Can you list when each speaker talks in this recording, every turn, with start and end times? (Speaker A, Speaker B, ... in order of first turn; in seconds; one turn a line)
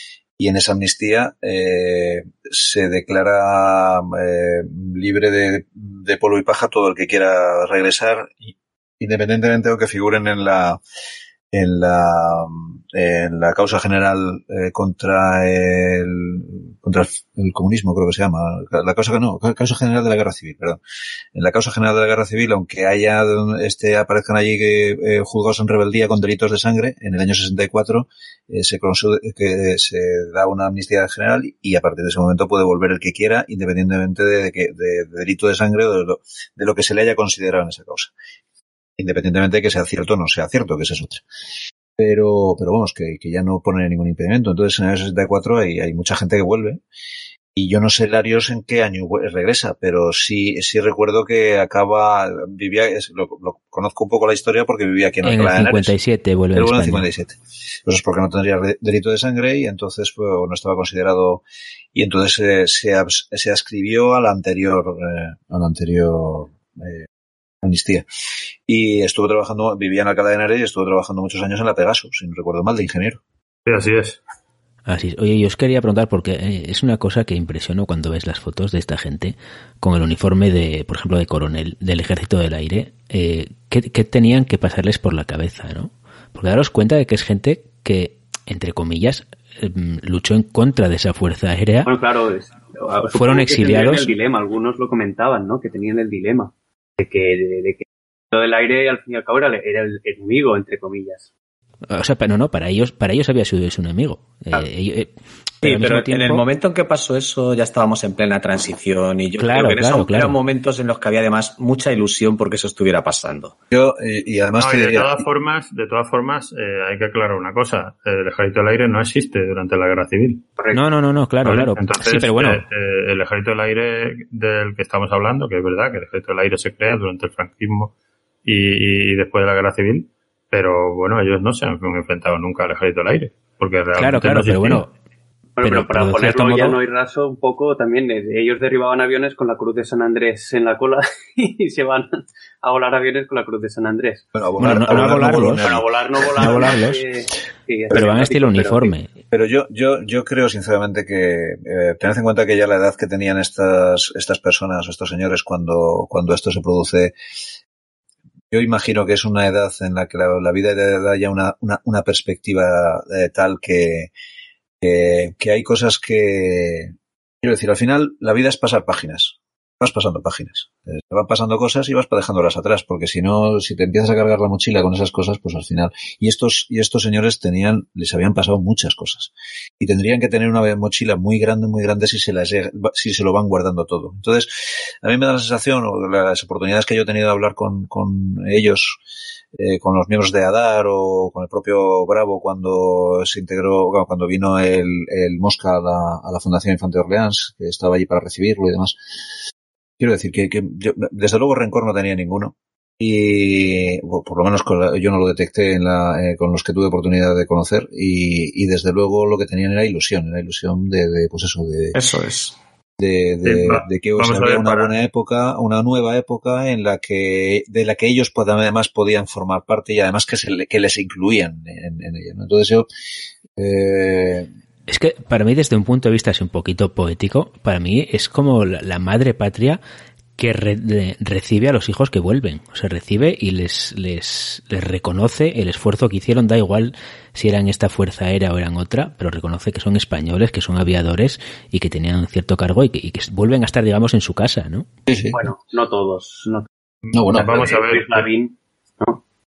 Speaker A: 0.4-10.8
Speaker A: 11.5-20.8
Speaker A: 21.4-38.1
Speaker A: 39.0-41.2
Speaker A: 42.0-46.8
Speaker A: 47.5-55.9
Speaker B: 55.2-57.1
Speaker A: 56.5-67.1
Speaker A: 67.6-68.0
Speaker A: 68.7-73.2
Speaker C: 73.7-74.2
Speaker B: 74.9-91.9
Speaker D: 91.8-101.2
Speaker B: 93.1-94.2
Speaker B: 101.9-105.1
Speaker B: 105.6-106.4
Speaker E: 105.6-113.5
Speaker B: 109.4-110.4
Speaker A: 113.7-115.2
Speaker C: 114.6-120.5
Speaker B: 120.7-122.6
Speaker C: 121.5-127.9
Speaker C: 128.4-134.8
Speaker B: 134.0-134.9
Speaker D: 135.6-148.9
Speaker B: 135.6-136.8
Speaker A: 144.3-146.7
Speaker B: 144.6-145.8
Speaker B: 146.4-147.0
Speaker B: 147.9-149.1
Speaker A: 149.3-157.2
Speaker A: 158.5-164.1
Speaker A: 164.8-189.0
Speaker A: 189.5-199.0
Speaker A: 200.0-212.0
Speaker E: 211.9-212.5
Speaker A: 213.0-222.9
Speaker C: 213.4-214.9
Speaker A: 223.6-224.5
Speaker B: 224.9-229.8
Speaker B: 230.4-244.9
Speaker A: 245.1-245.4
Speaker D: 245.3-246.7
Speaker C: 247.1-248.3
Speaker A: 247.1-247.7
Speaker D: 247.3-249.2